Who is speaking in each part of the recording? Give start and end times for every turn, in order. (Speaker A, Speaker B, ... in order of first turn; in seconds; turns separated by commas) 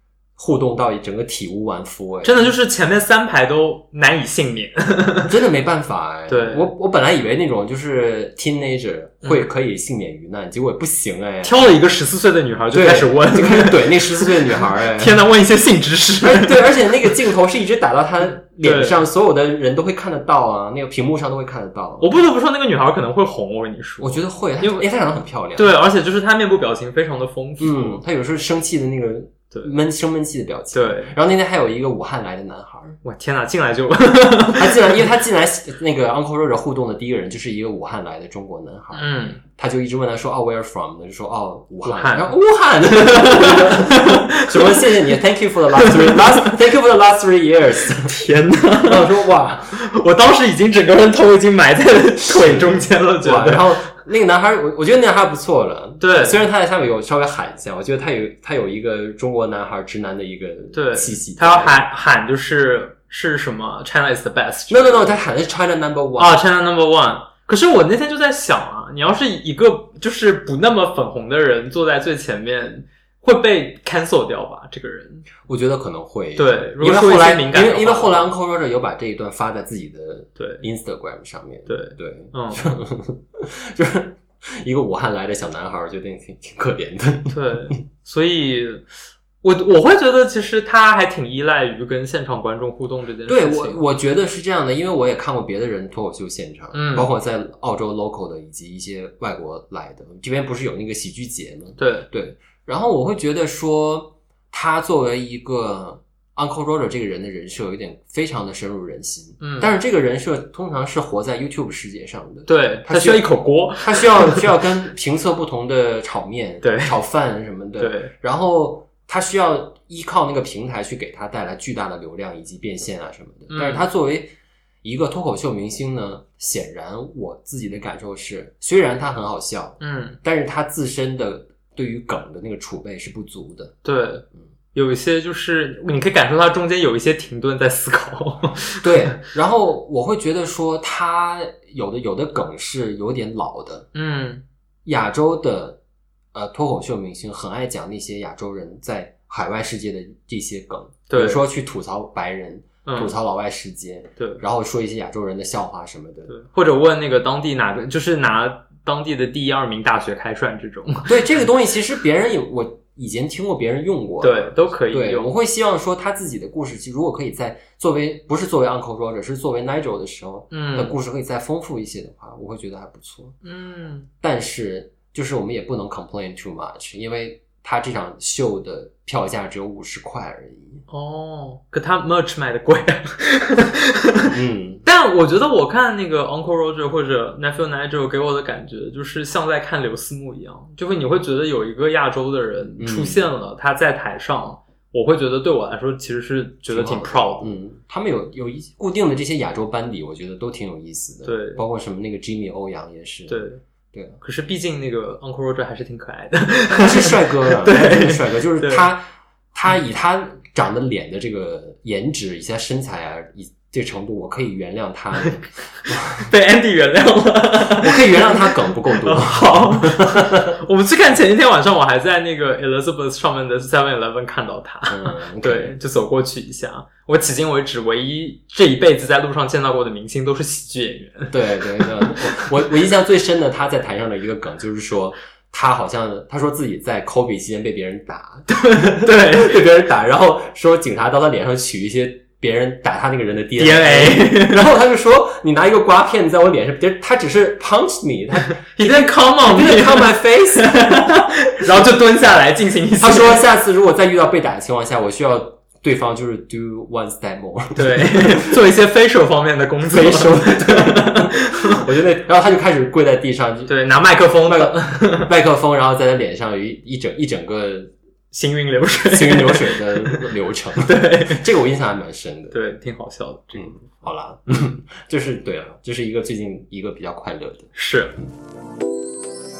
Speaker A: 0.4-2.5, Speaker B: 2.2-5.3, Speaker A: 5.3-11.6, Speaker B: 6.3-6.7, Speaker B: 11.4-16.8, Speaker A: 12.7-15.2, Speaker A: 16.2-22.1, Speaker B: 18.6-19.0, Speaker B: 22.0-24.9, Speaker A: 24.0-25.7, Speaker B: 25.6-28.0, Speaker A: 27.6-33.0, Speaker B: 30.7-31.1, Speaker B: 33.0-34.8, Speaker A: 34.5-48.1, Speaker B: 38.9-39.4, Speaker B: 41.8-42.4, Speaker B: 42.9-44.9, Speaker B: 45.8-46.5, Speaker B: 48.0-49.1, Speaker A: 48.9-49.8, Speaker B: 49.7-53.9, Speaker A: 52.2-61.8, Speaker B: 56.0-56.4, Speaker B: 60.7-65.2, Speaker A: 64.7-66.4, Speaker B: 66.2-75.3, Speaker A: 75.4-87.7, Speaker B: 76.4-78.3, Speaker B: 80.4-80.6, Speaker B: 81.7-82.7, Speaker B: 87.3-88.8, Speaker B: 89.4-93.8, Speaker A: 93.3-133.7, Speaker B: 96.7-97.1, Speaker B: 101.8-102.1, Speaker B: 109.4-109.7, Speaker B: 112.5-114.5, Speaker B: 116.6-117.0, Speaker B: 117.8-118.1, Speaker B: 123.5-123.9, Speaker B: 129.8-130.2, Speaker B: 133.8-139.2, Speaker A: 138.8-143.9, Speaker B: 143.9-144.4, Speaker A: 144.8-145.8, Speaker A: 146.3-156.3, Speaker B: 151.1-151.4, Speaker B: 152.8-153.1, Speaker B: 154.2-154.4, Speaker B: 156.3-161.2, Speaker A: 161.1-173.4, Speaker B: 164.2-165.3, Speaker B: 170.5-170.9, Speaker B: 173.4-174.1, Speaker A: 174.2-180.8, Speaker B: 180.9-197.6, Speaker A: 184.3-184.8, Speaker A: 192.8-193.2, Speaker A: 196.7-204.2, Speaker B: 201.2-201.6, Speaker B: 203.3-203.6, Speaker B: 204.2-208.9, Speaker A: 206.8-216.2, Speaker B: 215.3-232.5, Speaker A: 217.8-220.6, Speaker A: 224.9-225.8, Speaker A: 231.3-250.8, Speaker B: 238.5-239.6, Speaker B: 243.6-244.7, Speaker B: 248.6-253.4, Speaker A: 253.0-258.6, Speaker B: 257.8-261.8, Speaker A: 259.9-263.7, Speaker B: 263.7-265.3, Speaker A: 264.4-267.9, Speaker B: 268.3-271.5, Speaker A: 269.0-272.6, Speaker B: 272.5-274.7, Speaker A: 273.5-278.3, Speaker B: 277.7-278.2